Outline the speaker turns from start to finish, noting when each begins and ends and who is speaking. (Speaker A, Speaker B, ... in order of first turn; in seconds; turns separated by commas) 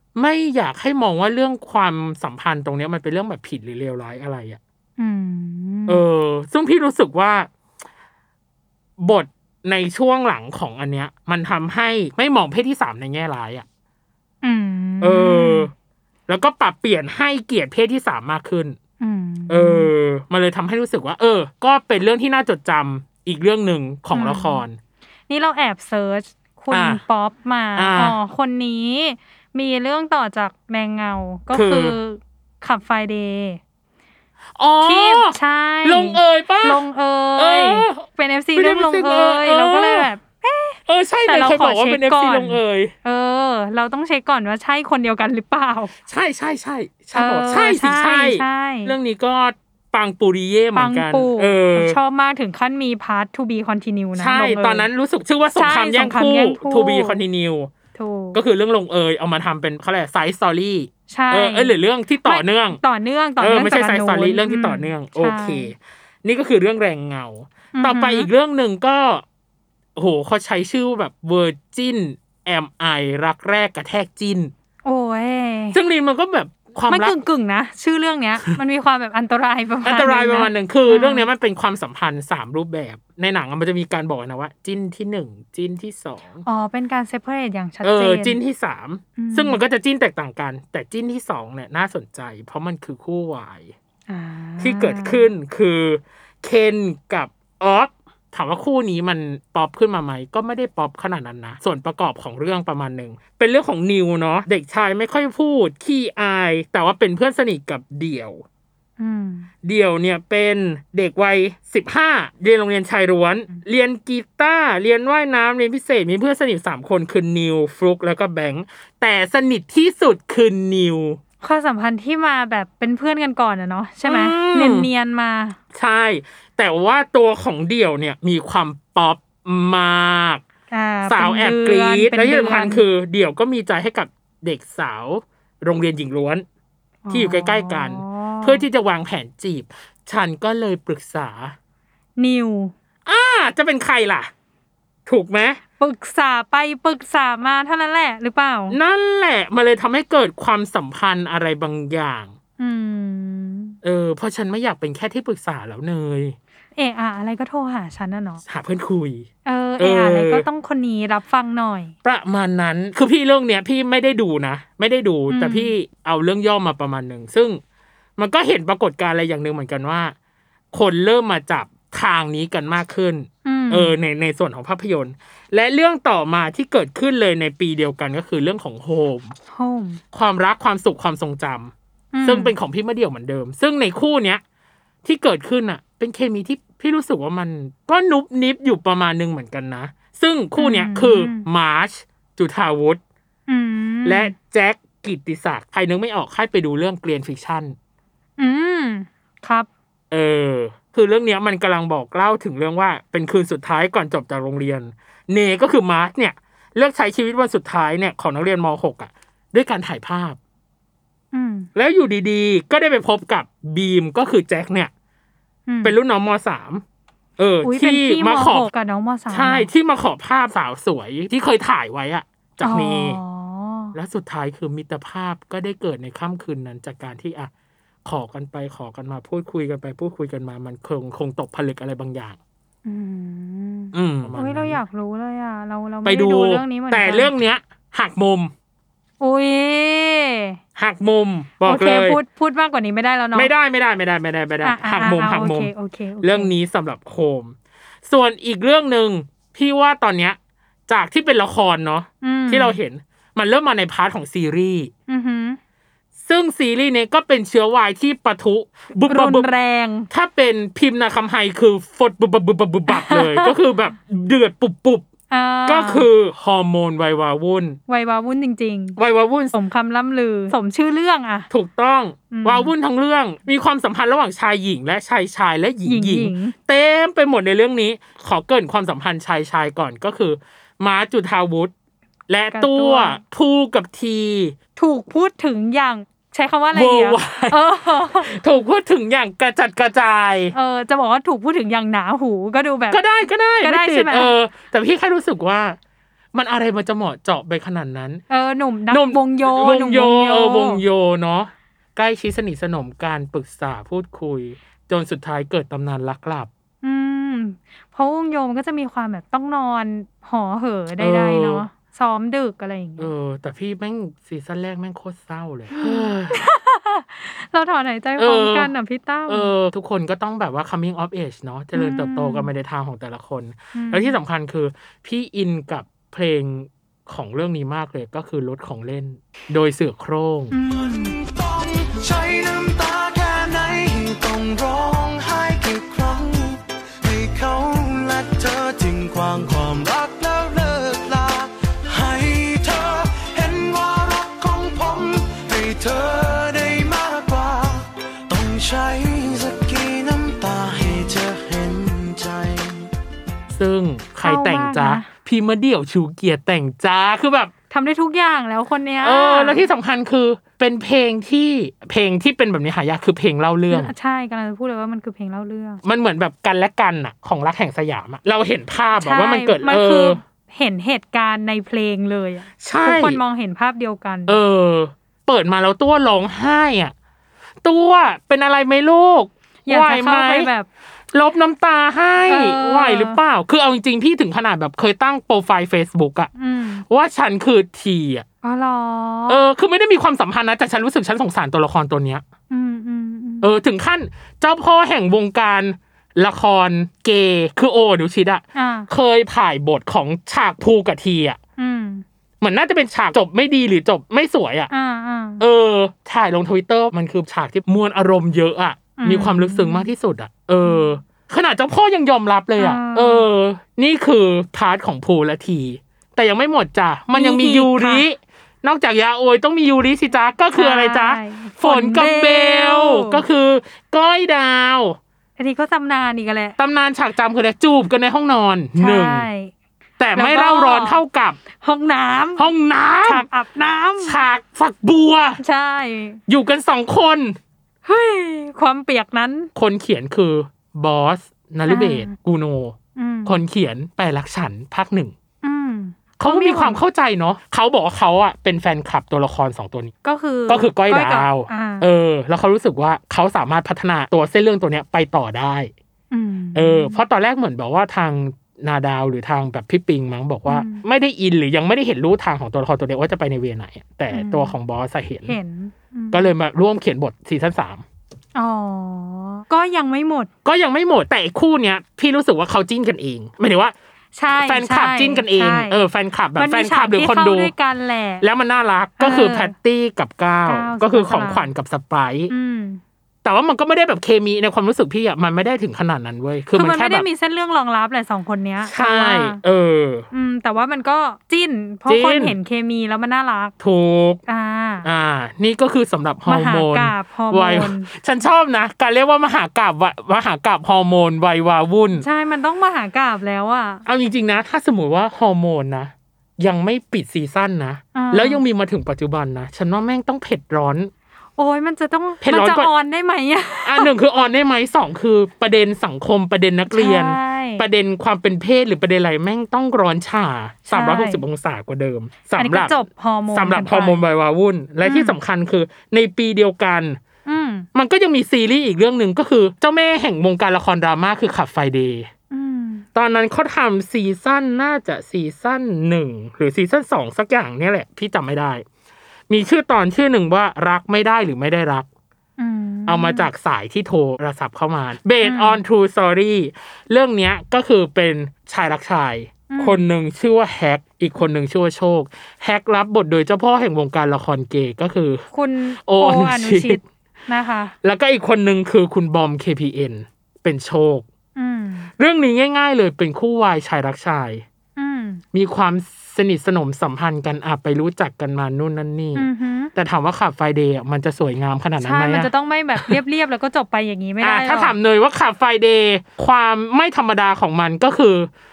Speaker A: 0.2-4.6, Speaker B: 5.0-6.0, Speaker A: 5.9-7.5, Speaker A: 9.0-13.7, Speaker B: 14.4-15.7, Speaker A: 15.0-15.7, Speaker A: 16.3-18.8, Speaker B: 19.0-19.9, Speaker A: 19.5-24.8, Speaker B: 24.1-24.6, Speaker B: 25.3-33.6, Speaker A: 26.7-27.0, Speaker A: 27.8-28.2, Speaker A: 31.5-32.0, Speaker A: 34.6-36.8, Speaker B: 34.8-45.9, Speaker A: 37.4-40.1, Speaker A: 40.9-42.9, Speaker A: 46.1-52.0, Speaker B: 47.1-48.9, Speaker B: 50.8-54.9, Speaker A: 54.2-57.7, Speaker B: 55.6-57.2, Speaker B: 58.0-58.4, Speaker A: 58.3-62.8, Speaker B: 61.1-65.7, Speaker A: 63.4-69.2, Speaker B: 67.8-68.3, Speaker A: 70.0-74.5, Speaker B: 74.8-75.8, Speaker A: 75.7-77.2, Speaker B: 76.9-81.3, Speaker A: 79.8-86.4, Speaker B: 86.5-88.4, Speaker A: 87.8-93.7, Speaker B: 89.2-89.6, Speaker B: 94.1-95.3, Speaker A: 94.6-108.4, Speaker B: 109.0-109.5, Speaker A: 109.6-121.2, Speaker B: 121.4-125.6, Speaker A: 124.0-124.9, Speaker A: 125.7-130.4, Speaker B: 130.7-132.8, Speaker A: 131.1-136.4, Speaker B: 137.1-138.7, Speaker A: 137.1-141.6, Speaker B: 142.2-142.7, Speaker A: 143.1-144.3, Speaker A: 145.1-145.6, Speaker B: 145.8-148.8, Speaker A: 148.7-152.3, Speaker B: 152.6-153.8, Speaker A: 153.8-156.4, Speaker B: 156.8-158.4, Speaker A: 158.4-159.3, Speaker B: 159.5-161.9, Speaker A: 159.8-160.4, Speaker A: 162.0-167.6, Speaker B: 165.3-165.7, Speaker A: 168.2-170.2, Speaker A: 170.7-179.3, Speaker B: 173.4-173.9, Speaker B: 179.5-180.0, Speaker A: 180.1-181.7, Speaker B: 182.1-182.5, Speaker A: 182.2-184.4, Speaker A: 185.0-193.0, Speaker B: 190.6-191.5, Speaker B: 193.5-194.3, Speaker A: 194.1-197.8, Speaker B: 198.4-199.7, Speaker A: 200.1-210.4, Speaker B: 211.3-211.7, Speaker A: 211.8-214.9, Speaker B: 215.7-215.9, Speaker A: 215.8-216.8, Speaker A: 217.4-218.7, Speaker B: 217.6-219.7, Speaker A: 219.3-223.2, Speaker B: 222.6-223.9, Speaker A: 223.9-227.5, Speaker A: 228.1-232.4, Speaker B: 232.9-237.3, Speaker A: 233.9-234.8, Speaker A: 236.1-238.5, Speaker B: 239.2-240.6, Speaker A: 240.8-242.2, Speaker B: 241.7-243.5, Speaker A: 243.3-245.7, Speaker B: 244.6-246.5, Speaker A: 246.2-247.5, Speaker A: 248.1-250.4, Speaker A: 250.9-254.9, Speaker B: 252.2-252.8, Speaker B: 255.1-255.6, Speaker A: 256.2-259.5, Speaker B: 259.1-260.1, Speaker A: 260.1-265.1, Speaker B: 262.9-263.5, Speaker B: 265.3-266.1, Speaker A: 265.7-267.8, Speaker B: 267.9-269.0, Speaker A: 269.0-269.6, Speaker B: 269.5-271.5, Speaker A: 271.5-281.7, Speaker B: 272.3-272.7, Speaker B: 275.9-276.6, Speaker A: 282.3-284.6, Speaker B: 282.5-283.2, Speaker B: 284.8-288.3, Speaker A: 286.7-287.6, Speaker A: 288.2-290.6, Speaker B: 290.5-293.0, Speaker A: 292.9-295.8, Speaker B: 293.6-294.3, Speaker A: 296.3-298.2, Speaker B: 298.3-300.8, Speaker A: 298.9-306.5, Speaker B: 306.8-313.1, Speaker A: 311.0-311.6, Speaker A: 313.0-316.4, Speaker B: 315.7-319.5, Speaker A: 318.2-318.7, Speaker A: 319.3-330.5, Speaker B: 321.8-322.5, Speaker B: 323.8-324.1, Speaker B: 330.5-331.1, Speaker C: 330.7-352.9, Speaker A: 353.5-357.5, Speaker B: 354.2-355.1, Speaker B: 357.7-359.7, Speaker A: 359.0-363.9, Speaker B: 363.7-365.8, Speaker A: 365.8-370.2, Speaker B: 369.0-374.4, Speaker A: 372.6-373.2, Speaker A: 374.3-376.9, Speaker A: 377.6-380.5, Speaker B: 379.7-380.7, Speaker A: 381.1-386.3, Speaker B: 382.3-383.2, Speaker B: 386.4-386.8, Speaker A: 386.9-388.2, Speaker B: 388.4-389.4, Speaker A: 389.3-392.2, Speaker B: 392.5-393.5, Speaker A: 393.4-401.4, Speaker B: 398.6-398.9, Speaker B: 401.6-402.1, Speaker A: 402.4-404.7, Speaker B: 404.7-405.4, Speaker A: 405.4-425.0, Speaker B: 409.0-409.9, Speaker B: 410.6-411.0, Speaker B: 412.6-413.2, Speaker B: 417.1-418.0, Speaker B: 420.5-423.2, Speaker B: 425.4-426.6, Speaker A: 426.6-429.3, Speaker B: 428.8-429.5, Speaker A: 430.0-431.4, Speaker B: 430.2-431.0, Speaker B: 431.6-432.5, Speaker A: 432.4-433.3, Speaker B: 433.0-434.2, Speaker A: 434.0-435.4, Speaker B: 435.4-436.2, Speaker A: 436.3-437.4, Speaker B: 437.9-439.5, Speaker A: 439.6-445.1, Speaker B: 441.7-442.1, Speaker B: 443.0-443.4, Speaker B: 445.4-446.8, Speaker A: 446.2-449.9, Speaker B: 450.0-451.9, Speaker A: 450.5-455.7, Speaker B: 456.1-457.0, Speaker A: 456.6-465.4, Speaker B: 460.5-460.8, Speaker B: 464.1-464.5, Speaker B: 465.3-466.3, Speaker A: 466.1-467.8, Speaker B: 468.4-470.3, Speaker A: 470.4-473.7, Speaker B: 474.2-475.8, Speaker A: 474.3-477.5, Speaker B: 476.4-478.2, Speaker A: 478.2-482.3, Speaker B: 479.0-479.5, Speaker B: 480.5-481.5, Speaker B: 482.3-482.8, Speaker A: 483.2-487.1, Speaker B: 486.6-489.4, Speaker A: 488.7-490.1, Speaker B: 490.1-493.5, Speaker A: 491.9-492.4, Speaker A: 493.6-494.2, Speaker B: 494.3-494.9, Speaker A: 494.8-502.1, Speaker B: 496.3-497.9, Speaker B: 502.0-503.8, Speaker A: 503.9-510.9, Speaker B: 507.9-508.4, Speaker B: 511.4-513.9, Speaker A: 512.2-512.7, Speaker A: 513.6-522.8, Speaker B: 516.7-517.6, Speaker B: 520.7-521.2, Speaker B: 522.4-524.0, Speaker A: 523.3-527.0, Speaker B: 524.8-525.2, Speaker B: 527.3-527.7, Speaker A: 527.7-532.1, Speaker B: 532.3-532.9, Speaker A: 533.0-538.6, Speaker A: 539.3-541.9, Speaker B: 542.4-543.3, Speaker A: 542.9-555.2, Speaker B: 545.2-545.6, Speaker B: 549.5-549.8, Speaker B: 555.3-557.7, Speaker A: 555.9-556.8, Speaker A: 557.8-561.0, Speaker B: 561.4-561.9, Speaker A: 562.0-564.5, Speaker B: 564.8-565.2, Speaker A: 565.3-573.0, Speaker B: 569.1-569.7, Speaker B: 571.8-574.7, Speaker A: 574.2-578.3